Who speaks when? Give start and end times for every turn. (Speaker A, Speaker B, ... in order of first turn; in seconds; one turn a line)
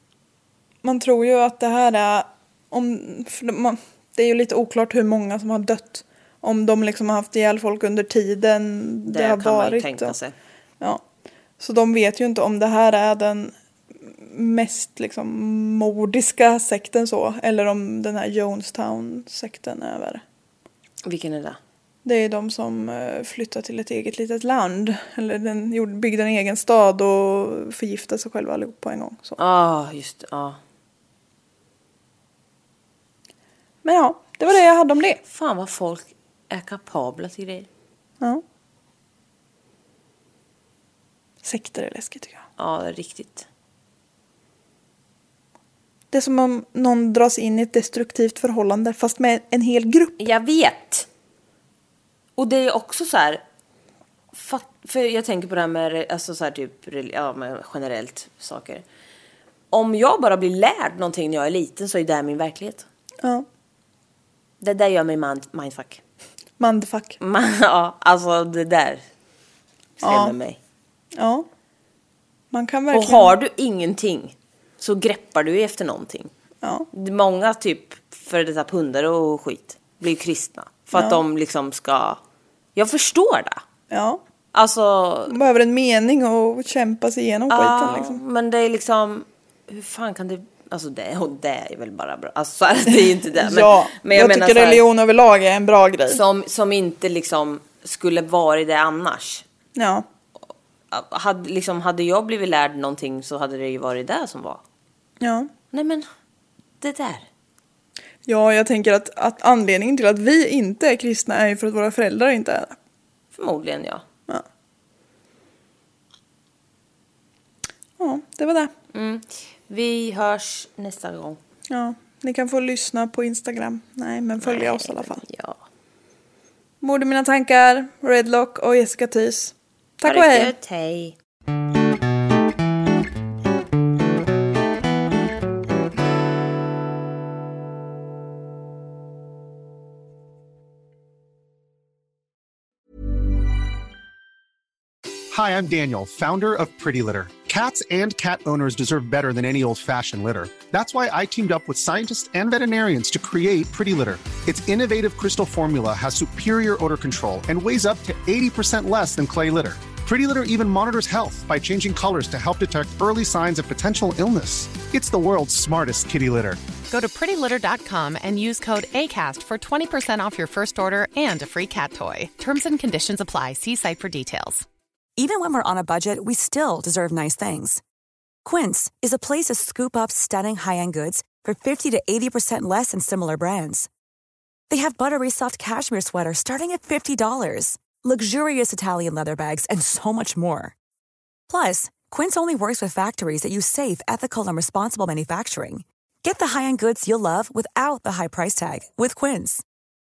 Speaker A: 0.8-10.1
Speaker B: 9.1-10.3
Speaker A: 11.6-20.2
Speaker B: 21.0-21.6
Speaker A: 22.0-29.4
Speaker B: 29.4-30.6
Speaker A: 33.8-35.2
Speaker B: 35.3-37.7
Speaker A: 41.4-42.5
Speaker B: 42.6-43.5
Speaker A: 46.1-50.2
Speaker B: 50.2-51.1
Speaker B: 52.4-53.4
Speaker B: 54.3-58.8
Speaker B: 59.7-62.9
Speaker B: 64.6-66.0
Speaker A: 66.6-67.2
Speaker B: 67.2-69.0
Speaker A: 70.0-70.3
Speaker B: 70.0-70.6
Speaker A: 71.1-71.5
Speaker A: 72.5-73.3
Speaker B: 72.9-76.3
Speaker A: 76.6-76.9
Speaker B: 76.9-82.2
Speaker A: 80.9-81.2
Speaker B: 82.7-83.6
Speaker A: 83.9-84.2
Speaker B: 84.5-85.3
Speaker A: 85.3-88.2
Speaker B: 87.5-94.8
Speaker A: 92.9-96.2
Speaker B: 96.1-99.4
Speaker A: 99.7-100.0
Speaker B: 100.9-104.6
Speaker A: 105.2-105.5
Speaker B: 105.7-106.0
Speaker B: 106.8-107.3
Speaker A: 108.2-112.8
Speaker B: 113.3-114.0
Speaker A: 118.0-118.7
Speaker B: 118.9-121.4
Speaker A: 121.7-125.2
Speaker B: 124.4-125.6
Speaker A: 126.8-130.5
Speaker B: 130.0-131.2
Speaker C: 145.3-166.6
Speaker D: 166.9-174.6
Speaker E: 175.2-177.8
Speaker E: 178.4-183.9
Speaker E: 184.7-190.7
Speaker E: 191.5-199.6